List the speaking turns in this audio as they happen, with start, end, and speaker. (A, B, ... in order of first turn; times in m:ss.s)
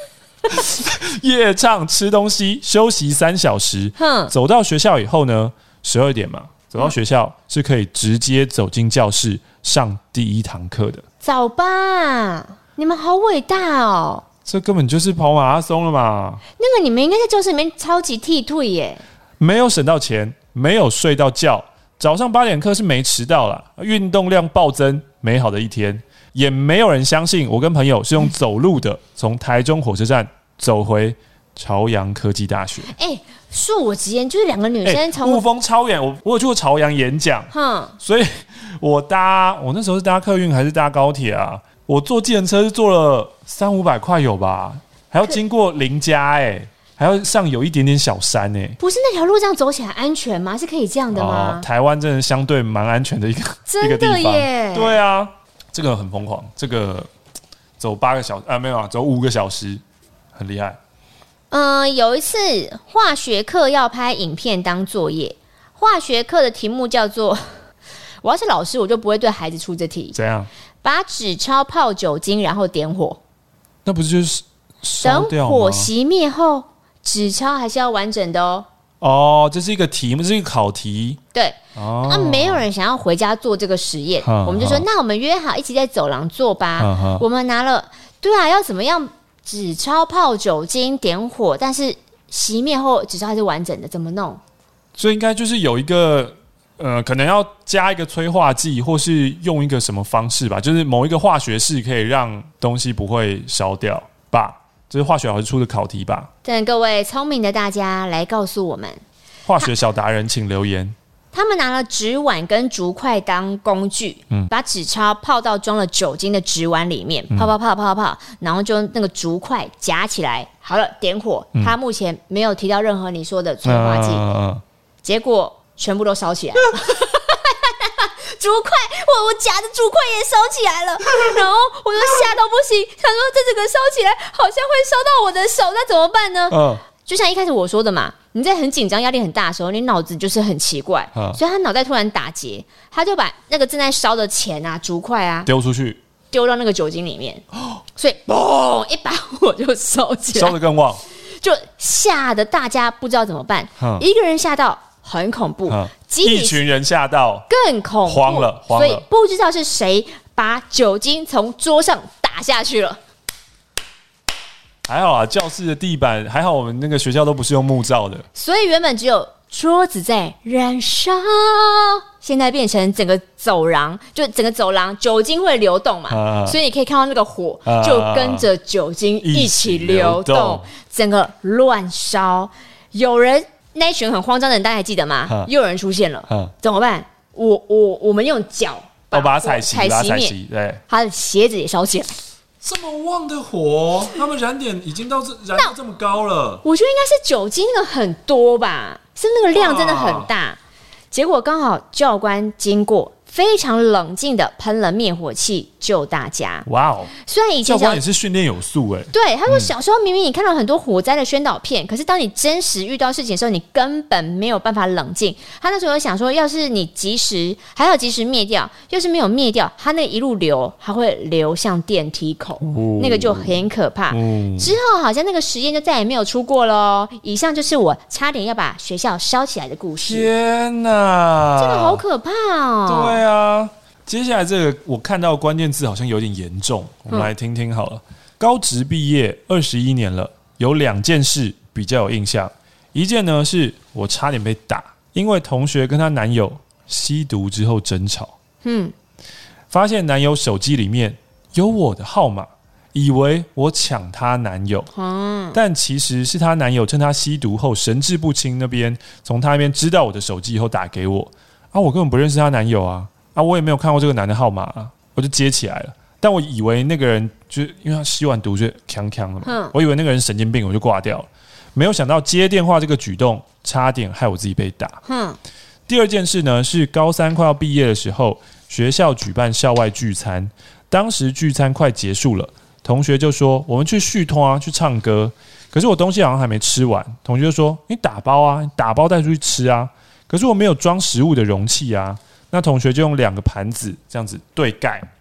0:00.5-0:11.0 A
0:04.0-0:04.3 B
0:11.2-0:14.3 B
0:14.4-0:16.4 A
0:16.6-0:19.0 B
0:19.4-0:32.9 A
0:32.9-0:35.4 B
0:34.8-0:48.8 A
0:37.5-0:38.0 B
0:48.8-0:51.7 B
0:51.1-0:57.1 A
0:53.7-0:55.0 B
0:57.8-0:59.8 A
1:00.4-1:00.8 A
1:01.5-1:07.6 B
1:08.2-1:10.2 B
1:10.1-1:10.5 A
1:10.8-1:13.2 B
1:13.8-1:15.9 A
1:15.0-1:18.7 B
1:19.0-1:21.2 A
1:21.3-1:34.4 B
1:21.8-1:22.7 A
1:24.2-1:24.9 A
1:26.8-1:27.2 A
1:35.0-1:46.3 A
1:46.4-1:49.0 B
1:49.5-1:51.0 A
1:51.3-2:04.2 B
2:03.6-2:04.6 A
2:05.0-2:25.5 B
2:16.5-2:16.8 A
2:21.2-2:21.4 A
2:25.5-2:26.0 A
2:26.3-2:27.4 B
2:28.0-2:30.6 B
2:30.3-2:31.0 A
2:31.3-2:36.6 B
2:33.8-2:34.0 A
2:35.7-2:37.5 A
2:37.5-2:43.0 B
2:38.0-2:39.0 A
2:44.9-2:48.3 A
2:48.4-3:10.4 B
2:56.1-2:56.6 A
2:57.7-2:58.5 A
2:59.2-3:00.7 A
3:09.1-3:10.8 A
3:10.9-3:12.2 B
3:12.6-3:16.6 A
3:16.6-3:20.6 B
3:19.5-3:20.3 A
3:21.1-3:28.0 B
3:26.7-3:27.1 A
3:27.6-3:29.7 A
3:29.1-3:50.3 B
3:42.6-3:43.6 A
3:44.1-3:44.8 A
3:50.0-3:52.0 A
3:51.6-3:53.2 B
3:52.9-4:08.4 A
4:08.6-4:08.9 B
4:09.7-4:14.9 A
4:14.9-4:15.6 B
4:15.5-4:35.0 A
4:29.4-4:29.7 B
4:35.1-4:35.4 B
4:35.9-4:55.1 A